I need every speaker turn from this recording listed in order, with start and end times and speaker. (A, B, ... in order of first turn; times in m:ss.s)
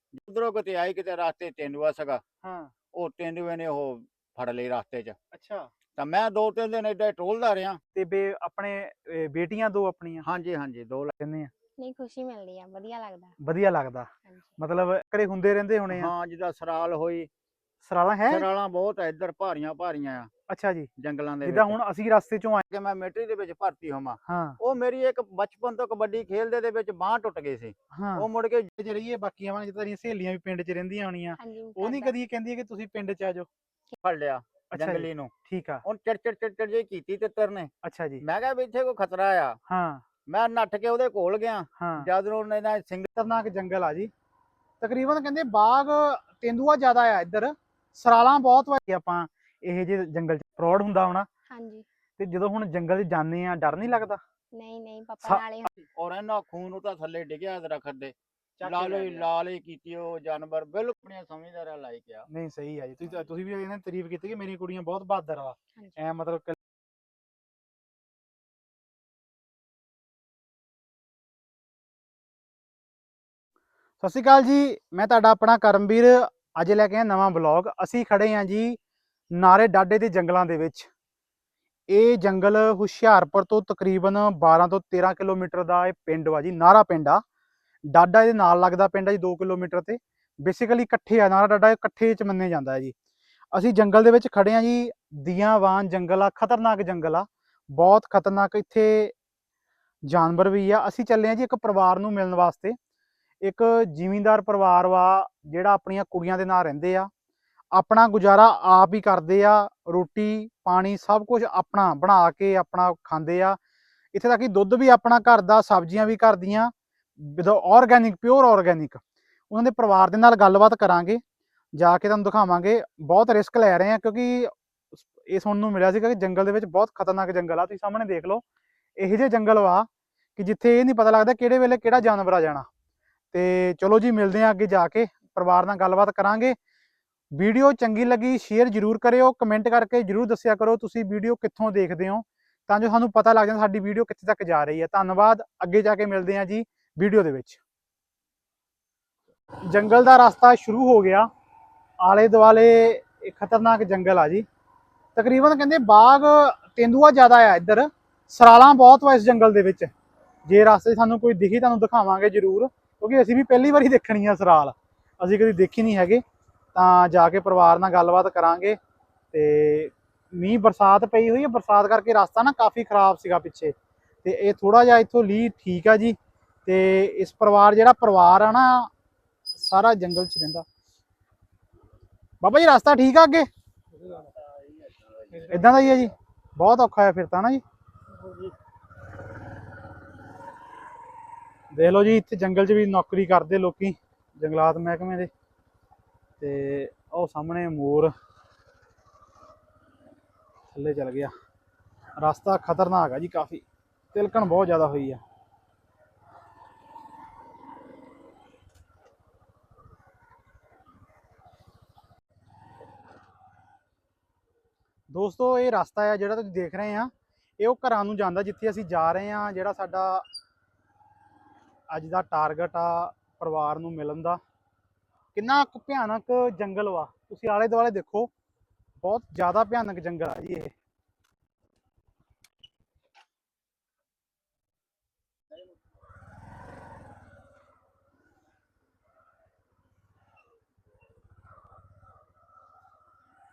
0:00.1-0:02.2 A
0:02.4-0:02.7 B
0:02.9-0:05.2 A
0:05.3-0:05.7 B
0:06.0-0:07.8 A
0:08.0-0:10.2 B
0:10.2-0:11.1 A
0:11.2-0:11.5 B
0:11.8-0:13.4 C
0:13.4-0:16.1 B
0:14.2-0:14.6 C
0:15.9-0:17.3 A
0:17.8-0:18.5 B
0:18.3-0:20.3 A
0:20.5-0:20.9 B
0:21.0-0:21.8 A
0:21.4-0:22.6 B
0:22.7-0:28.7 A
0:24.3-0:24.6 B
0:27.9-0:33.5 B
0:31.4-0:32.2 C
0:34.0-0:35.3 A
0:34.7-0:35.8 B
0:35.8-0:39.6 A
0:37.8-0:38.2 B
0:39.7-0:40.0 B
0:40.3-0:43.1 A
0:41.8-0:42.1 B
0:43.2-0:44.1 B
0:44.8-0:51.3 B
0:51.5-0:51.9 C
0:52.2-0:54.2 B
0:54.5-0:55.8 C
0:55.2-0:55.7 B
0:56.0-1:02.3 A
0:58.6-0:59.3 B
1:02.3-1:06.6 B
1:14.0-1:18.8 B
1:19.3-1:20.9 B
1:21.9-1:27.2 B
1:27.9-1:33.0 B
1:33.5-1:39.1 B
1:40.1-1:42.8 B
1:43.4-1:47.1 B
1:47.7-1:53.6 B
1:54.1-2:01.2 B
2:01.8-2:08.4 B
2:09.0-2:12.7 B
2:13.3-2:16.6 B
2:17.3-2:27.6 B
2:29.7-2:31.3 B
2:32.0-2:34.5 B
2:35.2-2:39.9 B
2:40.5-2:46.2 B
2:46.8-2:48.8 B
2:49.3-2:58.9 B
2:59.6-3:00.7 B
3:02.4-3:03.5 B
3:05.5-3:07.6 B
3:11.7-3:15.3 B
3:16.4-3:18.1 B
3:20.7-3:21.3 B
3:22.2-3:25.2 B
3:35.1-3:40.3 B
3:41.9-3:44.4 B
3:45.4-3:48.3 B
3:49.0-3:50.7 B